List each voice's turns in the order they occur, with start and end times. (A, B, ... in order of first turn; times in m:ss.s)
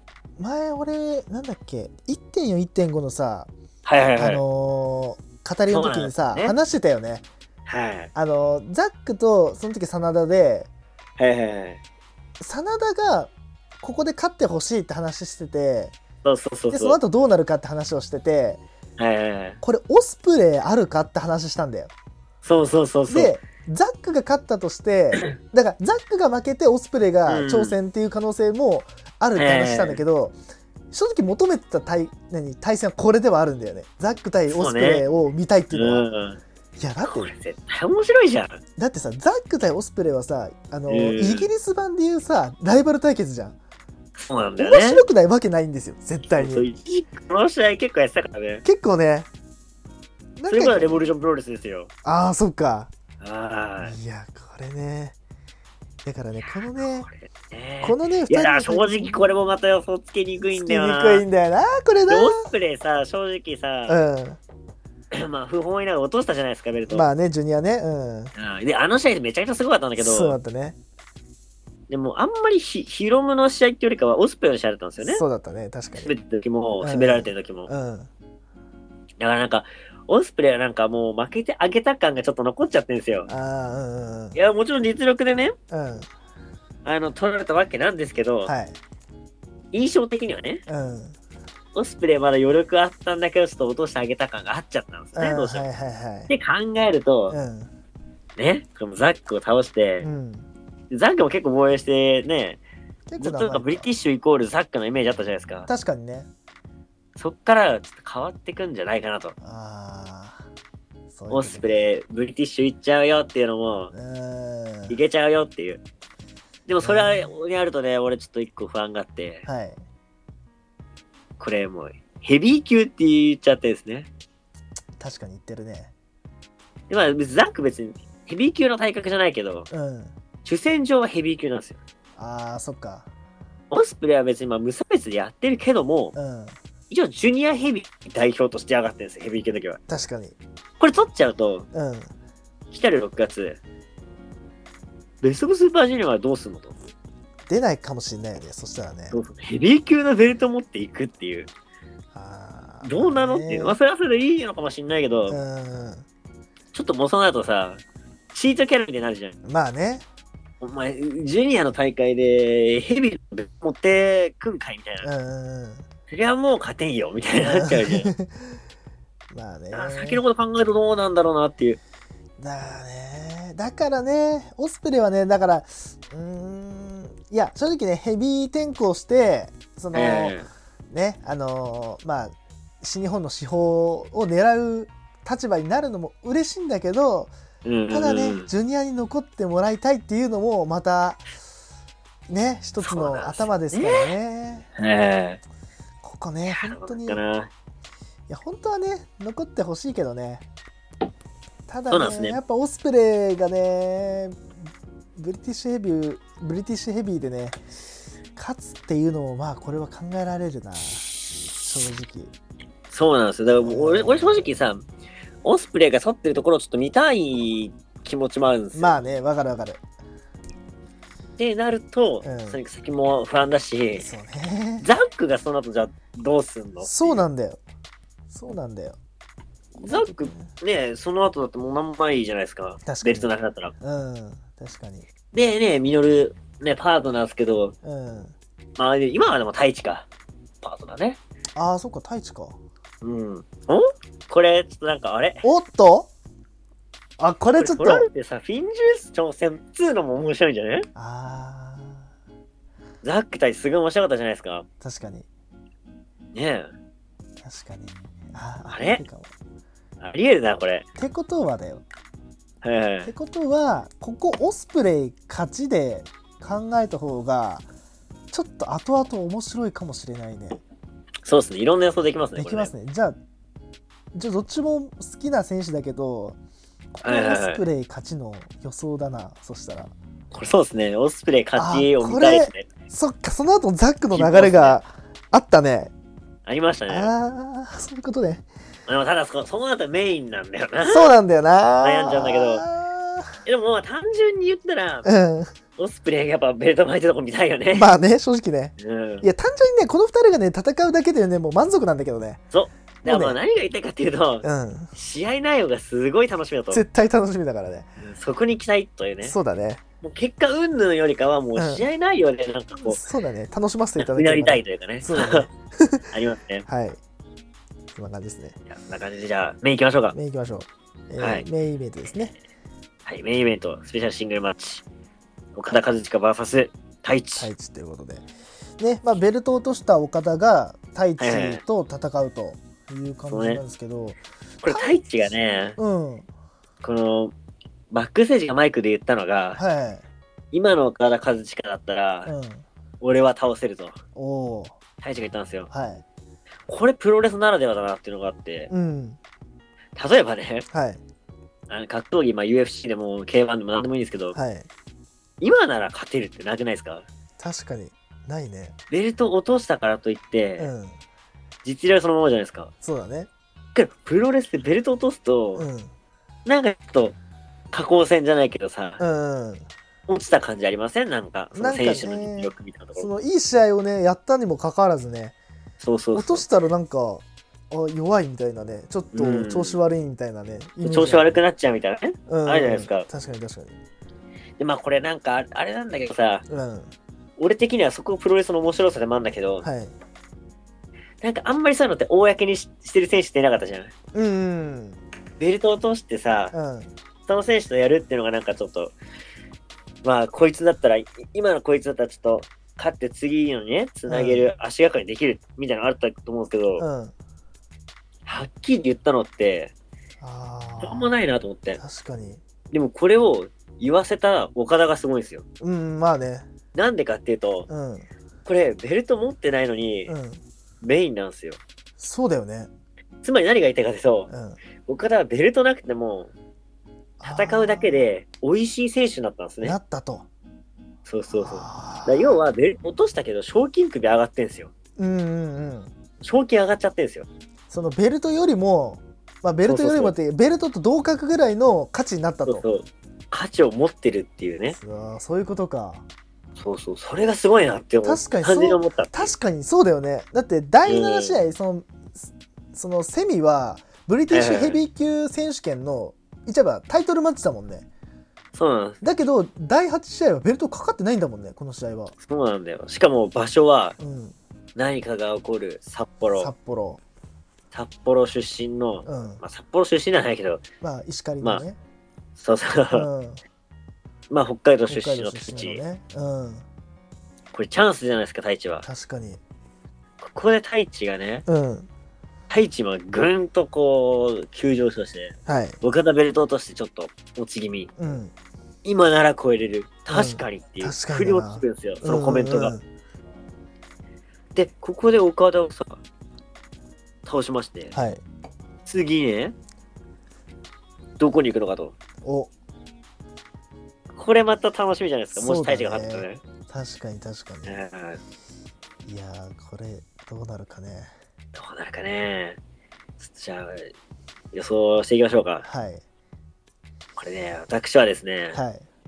0:00.4-0:03.5 A
0:03.8-0:04.4 B
0:04.2-0:07.2 A
0:05.7-0:06.5 B
0:07.7-0:08.1 B
0:08.1-0:10.7 A
0:11.2-0:11.8 B
0:12.4-0:13.3 A
0:13.8-0:15.9 A
0:16.2-0:17.0 B
0:16.7-0:18.6 A
0:19.0-0:19.6 B
0:19.6-0:21.9 A
0:22.4-0:23.4 B
0:23.1-0:30.4 A
0:27.3-0:27.8 B
0:29.4-0:30.0 B
0:30.9-0:36.1 A
0:34.5-0:35.0 B
0:35.7-0:36.4 B
0:36.8-0:37.3 A
0:37.0-0:38.6 B
0:38.8-0:43.6 A
0:40.9-0:41.5 B
0:44.2-0:45.0 B
0:44.6-0:46.6 A
0:46.4-0:48.6 B
0:48.6-0:49.3 A
0:50.4-0:51.1 A
0:50.5-0:51.9 B
0:52.0-0:52.9 A
0:53.2-0:54.0 B
0:53.8-0:55.2 A
0:56.0-0:57.1 A
0:56.4-1:01.2 B
0:57.8-0:59.3 A
1:00.4-1:02.4 A
1:02.1-1:04.0 B
1:03.9-1:04.4 A
1:05.1-1:07.1 B
1:06.9-1:08.3 A
1:08.3-1:10.4 B
1:10.0-1:10.8 A
1:11.9-1:15.2 B
1:15.0-1:16.1 A
1:16.0-1:17.7 B
1:16.8-1:18.1 A
1:19.2-1:23.3 B
1:23.3-1:24.4 A
1:24.3-1:25.5 B
1:25.7-1:26.1 A
1:26.8-1:28.5 B
1:28.4-1:28.8 A
1:29.7-1:30.6 B
1:30.7-1:31.2 A
1:31.7-1:35.7 B
1:35.1-1:36.3 A
1:36.3-1:37.4 B
1:37.3-1:37.7 A
1:38.4-1:40.0 B
1:40.0-1:40.5 A
1:40.9-1:42.6 B
1:43.1-1:43.9 A
1:43.2-1:45.7 B
1:45.7-1:46.3 A
1:47.2-1:49.3 B
1:49.4-1:50.5 A
1:51.1-1:51.9 A
1:51.3-1:53.9 B
1:53.9-1:55.0 A
1:54.9-1:55.8 B
1:56.7-1:59.4 B
1:56.8-1:57.3 A
1:59.4-1:59.8 A
2:01.4-2:04.1 B
2:05.0-2:05.9 A
2:06.9-2:09.7 B
2:09.7-2:10.1 A
2:10.4-2:11.8 B
2:12.2-2:13.1 A
2:13.7-2:16.1 B
2:16.1-2:16.6 A
2:16.9-2:19.8 B
2:19.9-2:20.4 A
2:20.8-2:21.7 B
2:21.7-2:22.1 A
2:22.7-2:23.6 B
2:25.2-2:26.7 B
2:27.5-2:29.2 A
2:29.1-2:31.5 B
2:32.1-2:33.8 A
2:32.8-2:35.4 B
2:35.3-2:36.0 A
2:36.7-2:39.4 B
2:39.4-2:40.0 A
2:40.6-2:45.1 B
2:45.0-2:45.8 A
2:46.1-2:48.1 B
2:47.4-2:48.6 A
2:49.3-2:50.2 A
2:49.7-2:51.8 B
2:52.4-3:00.4 A
2:59.9-3:00.5 B
3:00.9-3:07.3 A
3:07.6-3:08.5 B
3:07.9-3:11.2 A
3:12.3-3:14.7 A
3:12.8-3:14.1 B
3:14.8-3:15.4 B
3:16.0-3:17.2 A
3:16.4-3:17.5 B
3:18.3-3:20.4 A
3:21.7-3:24.5 A
3:21.9-3:22.4 B
3:25.2-3:27.6 A
3:28.3-3:32.3 A
3:32.9-3:34.8 B
3:33.5-3:34.6 A
3:35.4-3:39.0 B
3:38.7-3:39.8 A
3:41.4-3:44.1 B
3:42.2-3:42.6 A
3:44.0-3:44.9 A
3:44.8-3:47.2 B
3:46.8-3:47.6 A
3:48.3-3:49.0 A
3:49.8-3:53.7 B
3:49.9-3:50.5 A
3:52.8-3:55.1 A
3:55.3-3:57.7 B
3:57.8-3:58.3 A
3:58.8-4:00.1 B
4:00.6-4:01.2 B
4:01.5-4:02.6 A
4:03.0-4:05.4 B
4:05.4-4:06.1 A
4:07.2-4:08.1 A
4:07.6-4:10.9 B
4:10.9-4:12.1 A
4:13.0-4:14.6 B
4:14.8-4:15.3 A
4:16.3-4:16.7 B
4:17.4-4:19.3 A
4:18.6-4:19.0 B
4:20.0-4:20.8 B
4:21.0-4:21.8 A
4:22.6-4:23.1 B
4:23.0-4:27.7 A
4:28.3-4:30.6 A
4:31.2-4:32.7 B
4:32.4-4:33.2 A
4:34.1-4:36.4 A
4:37.0-4:39.9 A
4:37.0-4:37.6 B
4:40.3-4:42.7 B
4:41.6-4:45.9 A
4:44.1-4:44.8 B
4:46.4-4:47.1 B
4:46.9-4:48.4 A
4:48.9-4:51.1 B
4:50.8-4:53.4 A
4:51.8-4:52.6 B
4:53.4-4:55.1 B
4:55.0-4:55.5 A
4:55.8-4:57.9 B
4:57.7-5:02.4 A
4:58.8-4:59.3 B
5:02.5-5:06.8 B
5:03.0-5:03.4 A
5:04.4-5:04.9 A
5:06.7-5:07.9 A
5:08.0-5:09.4 B
5:09.2-5:09.8 A
5:10.0-5:13.0 B
5:11.5-5:11.9 A
5:12.8-5:16.0 A
5:14.0-5:15.5 B
5:16.1-5:16.6 B
5:16.6-5:17.0 A
5:17.9-5:18.6 A
5:18.7-5:20.2 B
5:20.1-5:22.3 A
5:21.2-5:21.5 B
5:23.0-5:24.8 B
5:25.6-5:27.5 B
5:27.4-5:28.3 A
5:28.8-5:35.0 A
5:31.2-5:31.6 B
5:33.3-5:33.6 B
5:34.6-5:35.8 B
5:35.8-5:36.3 A
5:36.8-5:37.3 B
5:37.9-5:39.6 B
5:39.5-5:40.0 A
5:40.5-5:42.3 B
5:42.2-5:42.6 A
5:43.0-5:44.0 B
5:44.1-5:44.8 A
5:45.0-5:45.7 B
5:45.7-5:46.0 A
5:46.7-5:48.7 B
5:48.7-5:49.2 A
5:50.0-5:50.6 B
5:50.7-5:51.0 A
5:51.7-5:54.3 B
5:54.3-5:54.7 A
5:55.4-5:57.0 B
5:57.4-5:58.7 A
5:58.9-6:00.7 B
6:00.6-6:01.0 A
6:01.6-6:02.7 B
6:02.8-6:03.3 A
6:03.7-6:05.6 B
6:05.5-6:05.9 A
6:06.4-6:07.2 B
6:07.7-6:09.0 B
6:09.0-6:09.7 A
6:10.1-6:13.1 B
6:11.5-6:15.3 A
6:15.8-6:16.4 B
6:16.1-6:21.4 A
6:19.1-6:19.8 B
6:20.8-6:23.1 B
6:22.3-6:23.8 A
6:24.6-6:26.4 B
6:26.5-6:26.9 A
6:27.4-6:29.6 B
6:29.6-6:29.9 A
6:31.2-6:33.9 B
6:34.1-6:35.0 A
6:35.4-6:36.5 B
6:36.5-6:36.9 A
6:37.3-6:38.9 B
6:40.0-6:46.8 B
6:44.1-6:44.5 A
6:46.8-6:47.1 A
6:48.2-6:49.7 B
6:50.2-6:51.1 A
6:50.8-6:51.8 B
6:51.8-6:52.4 A
6:52.7-6:55.4 B
6:55.6-6:56.5 A
6:56.7-6:57.7 B
6:57.7-6:58.0 A
6:58.4-7:00.1 B
7:00.0-7:00.4 A
7:00.8-7:01.6 B
7:02.0-7:02.7 A
7:03.2-7:04.3 B
7:04.3-7:04.6 A
7:04.8-7:06.3 B
7:07.2-7:08.0 A
7:07.2-7:09.8 B
7:09.6-7:10.3 A
7:11.0-7:14.7 B
7:11.3-7:12.4 A
7:15.0-7:15.9 A
7:16.2-7:17.3 B
7:17.7-7:22.6 A
7:19.7-7:20.1 B
7:22.4-7:24.8 B
7:24.7-7:26.0 A
7:26.6-7:29.3 B
7:28.0-7:37.9 A
7:30.8-7:31.4 B
7:34.3-7:34.8 B
7:38.5-7:39.0 B
7:39.0-7:42.1 A
7:42.2-7:44.0 B
7:44.0-7:44.3 A
7:44.8-7:46.5 B
7:46.4-7:47.0 A
7:47.7-7:50.6 B
7:49.0-7:49.4 A
7:50.8-7:51.8 A
7:52.4-7:53.1 B
7:52.9-7:53.4 A
7:54.3-7:55.8 B
7:54.9-7:56.6 A
7:57.5-7:58.8 B
7:58.8-7:59.4 A
8:00.2-8:01.4 B
8:01.4-8:01.9 A
8:02.5-8:07.9 B
8:05.4-8:05.8 A
8:08.0-8:08.3 A
8:08.8-8:12.8 B
8:10.1-8:12.8 A
8:14.5-8:16.0 B
8:17.2-8:17.9 B
8:17.9-8:18.2 A
8:18.8-8:19.5 B
8:21.2-8:21.9 B
8:22.2-8:22.5 A
8:24.1-8:26.4 B
8:25.3-8:27.8 A
8:27.6-8:28.2 B
8:29.0-8:31.1 A
8:31.5-8:32.6 B
8:33.2-8:33.9 B
8:34.5-8:35.6 B
8:35.6-8:36.0 A
8:37.2-8:38.6 B
8:38.5-8:38.8 A